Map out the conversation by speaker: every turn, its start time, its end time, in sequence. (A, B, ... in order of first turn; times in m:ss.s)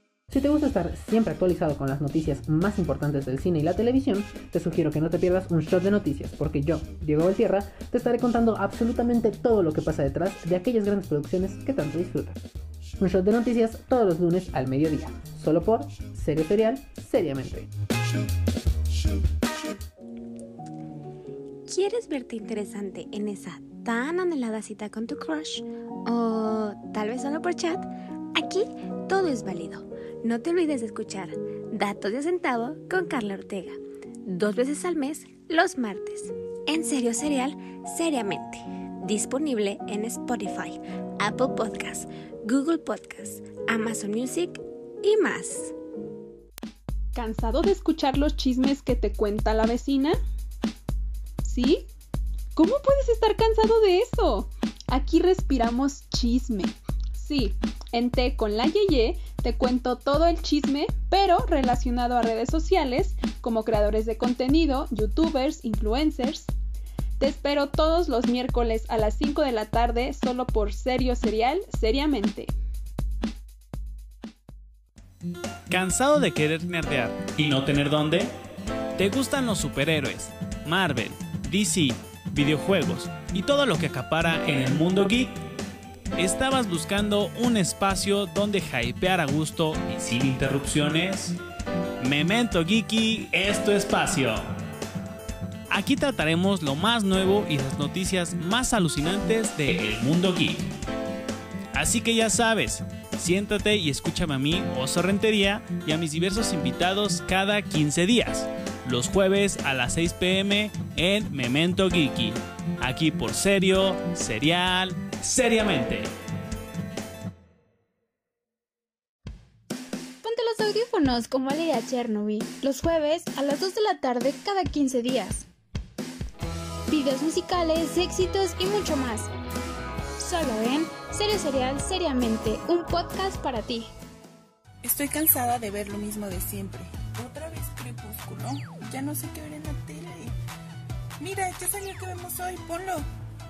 0:00.3-0:12.4 A
0:13.0-0:17.7 A
0:21.7-0:45.7 B
0:47.1-0:50.2 C
0:51.4-0:51.9 C
0:52.5-1:06.5 C
1:07.2-1:12.5 C
1:15.7-1:18.3 D
1:19.0-1:25.3 D
1:26.2-1:31.3 D
1:32.0-1:34.4 D
1:35.7-1:40.6 D
1:41.7-1:56.1 D
2:00.2-2:05.5 E
2:06.9-2:09.3 E
2:10.2-2:13.9 E
2:14.8-2:20.3 F
2:21.2-2:23.1 F